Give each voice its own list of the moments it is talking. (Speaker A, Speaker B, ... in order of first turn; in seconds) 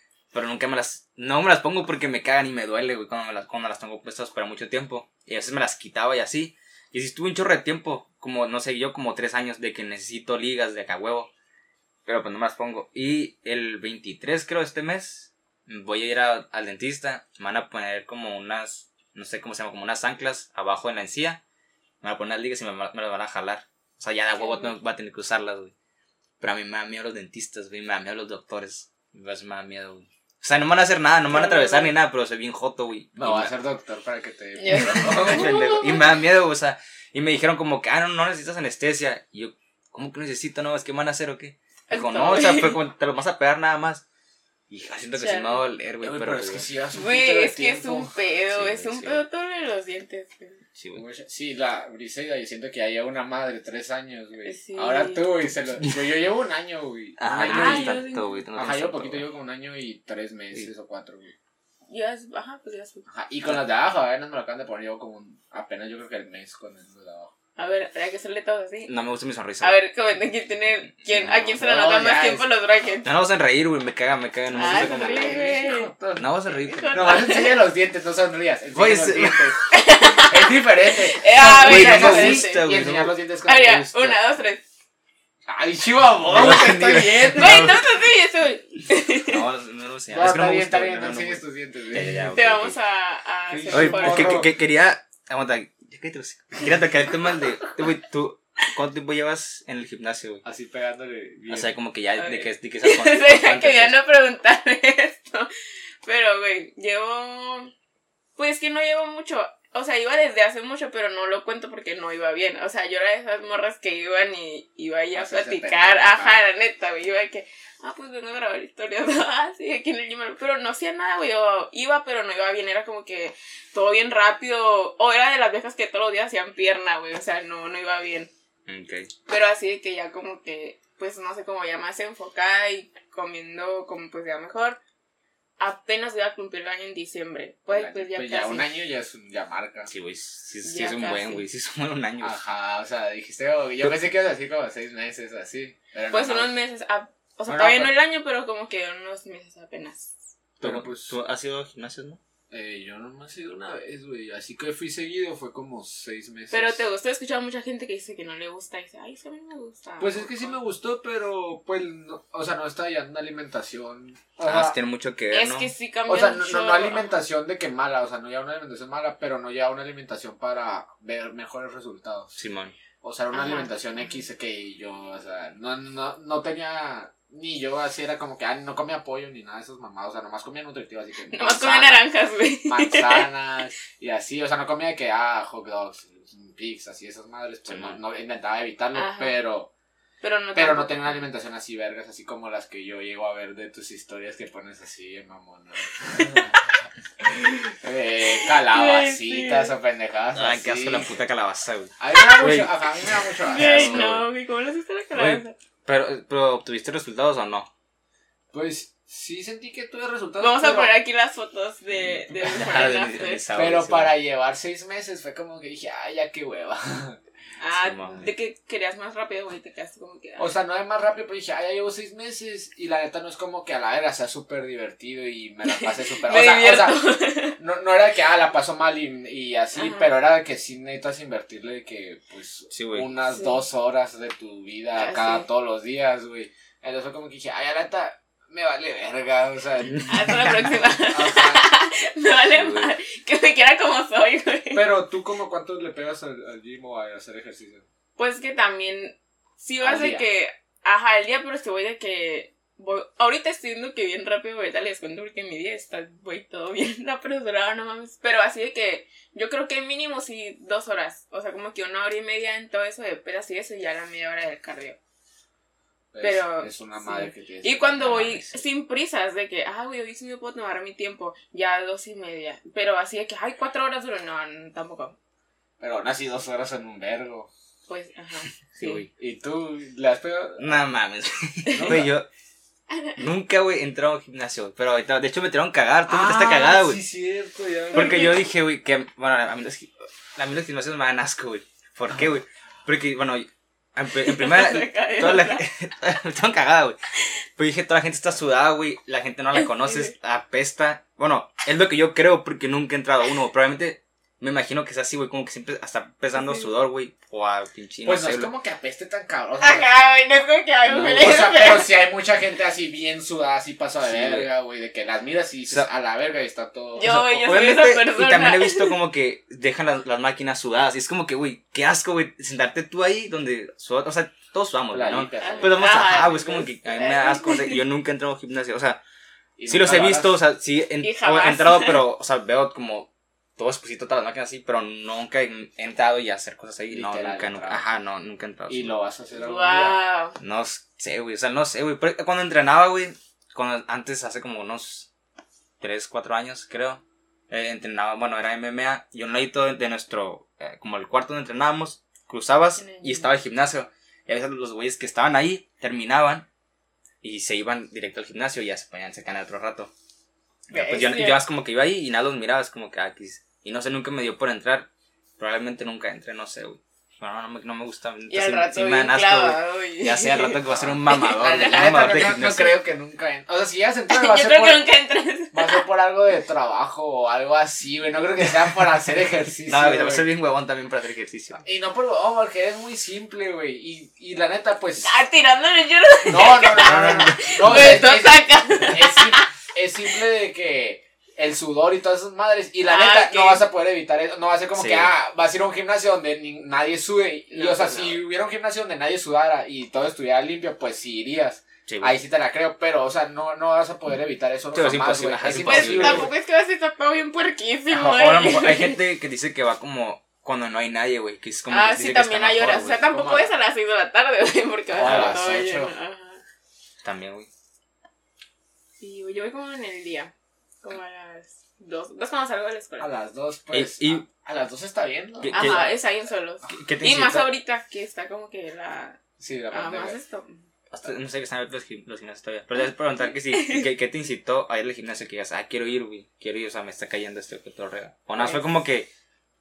Speaker A: 0.3-11.3, 12.1-21.4, 22.0-25.7, 26.4-33.5, 34.8-44.0, 44.7-46.7, 48.5-49.2, 50.8-51.0, 57.2-59.2, 68.9-69.8, 71.1-71.6, 73.0-75.5, 76.2-77.3, 78.7-79.5, 81.4-83.2, 86.2-87.9, 89.3-92.8, 93.7-100.4, 101.5-104.0, 128.7-129.1, 139.9-142.4, 150.6-152.2, 164.4-165.7, 172.3-172.8, 187.7-188.0, 200.3-202.7, 203.5-204.2, 205.1-207.7, 212.3-214.1, 217.7-218.3, 232.7-233.1, 239.9-240.5, 242.5-242.9, 268.0-268.4, 278.7-279.1, 280.6-282.3, 283.2-287.0, 287.9-297.0, 297.6-308.5, 310.9-311.3, 314.0-314.5, 317.0-329.0, 329.7-338.9, 340.4-345.1, 345.8-356.5, 357.2-359.9, 360.7-372.7, 379.7-381.6, 386.7-388.0, 394.7-395.1, 401.9-402.1, 404.7-406.3, 407.9-413.1, 415.0-415.4, 417.0-417.5, 423.7-424.2, 425.4-425.9, 426.7-427.5, 430.9-439.1
Speaker B: 24.4-24.7, 31.3-31.9, 34.6-36.1, 41.9-42.8, 45.1-45.6, 46.9-50.6, 54.5-55.2, 57.4-58.3, 61.9-63.0, 67.6-68.9, 69.6-73.1, 74.5-75.9, 76.5-77.6, 79.7-82.7, 83.5-84.6, 87.3-89.4, 92.3-94.5, 102.2-105.5, 106.0-107.7, 108.4-128.3, 129.3-134.8, 135.6-138.7, 140.6-141.4, 146.1-150.1, 156.5-160.6, 165.3-167.1, 173.3-174.2, 181.3-183.3, 188.9-189.4, 190.2-191.2, 198.4-199.7, 203.4-205.5, 210.4-213.4, 217.6-220.5, 225.7-227.6, 229.7-230.1, 233.3-233.6, 234.9-235.5, 240.1-244.9, 248.2-265.0, 266.2-275.1, 277.9-279.0, 281.7-281.9, 282.9-283.2, 287.9-288.4, 294.2-295.6, 299.5-300.1, 306.4-306.6, 309.6-312.0, 317.0-319.0, 325.4-327.8, 331.0-332.0, 339.4-340.4, 352.8-353.3, 360.7-361.4, 368.3-371.6, 374.1-375.9, 385.0-389.5, 392.9-393.6, 397.5-398.2, 405.6-409.0, 411.7-416.4, 419.0-423.1, 425.5-429.2, 429.7-430.6, 433.4-433.9, 438.3-438.7
Speaker C: 33.2-35.6, 46.0-48.1, 50.9-58.0, 58.5-61.3, 63.0-67.3, 71.5-72.5, 74.5-76.3, 76.9-84.2, 85.5-87.8, 90.1-92.3, 93.5-94.5, 100.4-101.7, 115.1-116.4, 137.7-139.9, 142.2-146.5, 147.5-147.9, 150.6-151.2, 152.5-156.8, 160.0-164.8, 166.1-172.4, 173.0-182.0, 182.6-189.7, 190.5-196.6, 197.3-201.1, 202.0-204.1, 208.5-210.9, 213.5-217.2, 220.4-227.0, 227.6-241.6, 244.7-247.8, 249.8-250.2, 266.1-268.4, 275.8-277.5, 279.1-280.8, 281.7-282.1, 286.1-288.3, 308.0-309.9, 310.9-317.1, 324.9-325.9, 329.6-330.4, 336.9-337.8, 338.7-340.0, 370.8-374.9, 375.5-380.3, 381.6-385.1, 386.3-406.3, 412.9-413.5, 414.9-415.9, 423.0-425.9, 429.4-430.2